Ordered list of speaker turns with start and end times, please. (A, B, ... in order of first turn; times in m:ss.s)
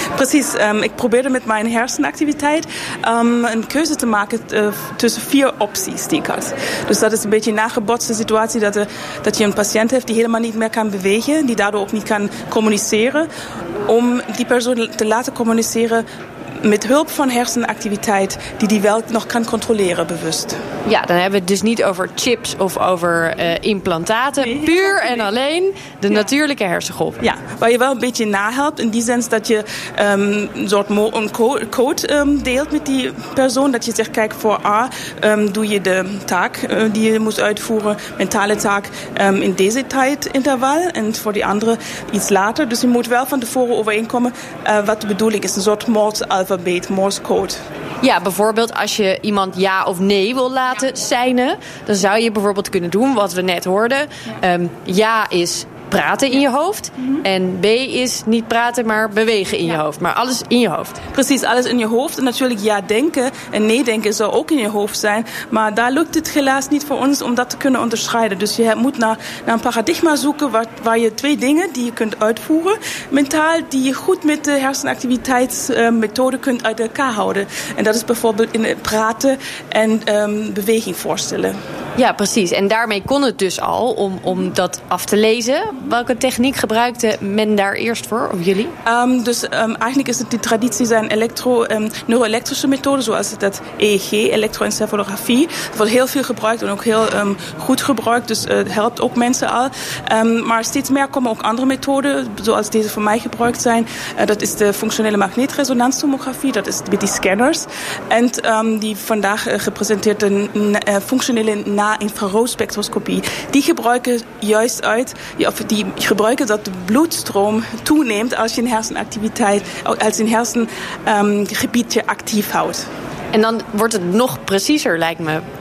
0:00.1-0:13.3 A
0:13.9-0:16.0 A
0:16.6-0:20.6 A
0:20.8-0:27.2 B
0:24.4-0:25.2 A
0:27.2-0:47.6 A
0:48.0-1:01.0 B
1:01.1-1:21.6 A
1:22.0-1:28.7 B
1:28.8-2:02.8 A
2:03.3-2:05.4 B